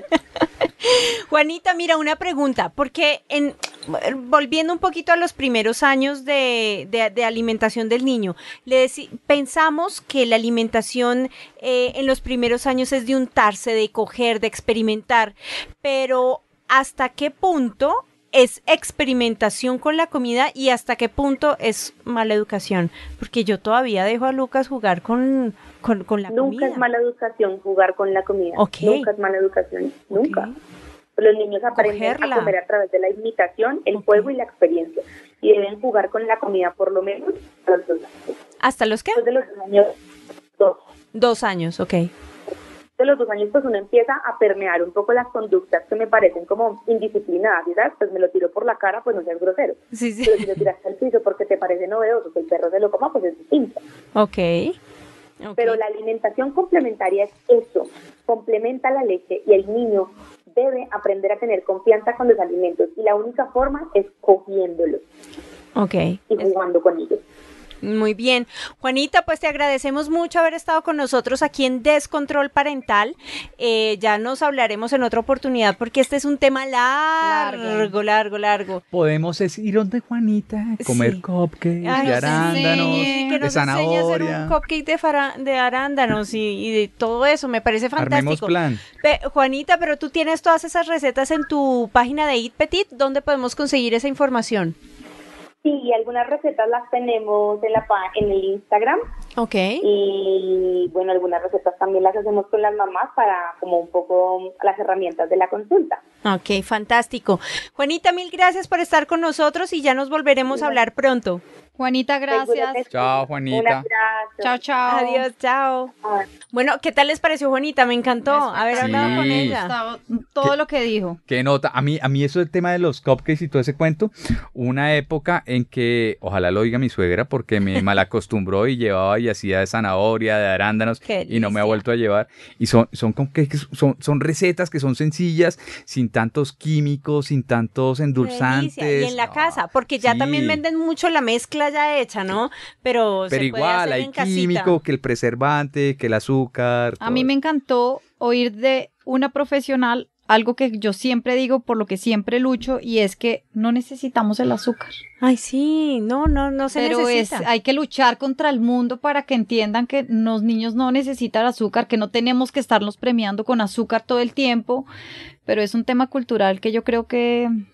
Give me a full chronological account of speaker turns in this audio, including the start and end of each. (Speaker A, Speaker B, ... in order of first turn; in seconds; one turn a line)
Speaker A: 0.4-26.8
Speaker B: 26.3-30.5
Speaker A: 28.6-29.1
Speaker A: 30.1-30.6
Speaker B: 31.1-38.1
Speaker A: 31.7-32.5
Speaker A: 33.9-34.3
Speaker A: 38.6-39.2
Speaker B: 39.1-39.9
Speaker A: 41.1-42.1
Speaker B: 43.0-53.8
Speaker A: 49.9-50.7
Speaker A: 54.1-54.8
Speaker A: 55.4-55.8
Speaker B: 55.6-65.0
Speaker A: 65.8-66.5
Speaker B: 66.3-67.2
Speaker A: 67.8-78.8
Speaker C: 77.2-77.9
Speaker D: 78.9-84.5
Speaker A: 80.8-81.2
Speaker A: 81.8-94.8
Speaker C: 81.9-83.4
Speaker D: 88.0-88.8
Speaker B: 95.6-99.0
Speaker A: 99.3-99.9
Speaker B: 99.8-106.0
Speaker A: 106.2-111.4
Speaker B: 110.5-110.8
Speaker C: 111.8-112.8
Speaker B: 112.3-114.5
Speaker D: 112.9-113.8
Speaker C: 114.4-115.2
Speaker A: 114.9-115.9
Speaker A: 116.5-119.7
Speaker C: 118.3-121.2
Speaker D: 118.8-119.6
Speaker D: 121.3-140.6
Speaker A: 131.0-131.8
Speaker A: 138.1-144.7
Speaker D: 143.3-147.3
Speaker C: 147.0-154.9
Speaker A: 155.2-157.4
Speaker C: 156.7-164.9
Speaker C: 165.4-167.5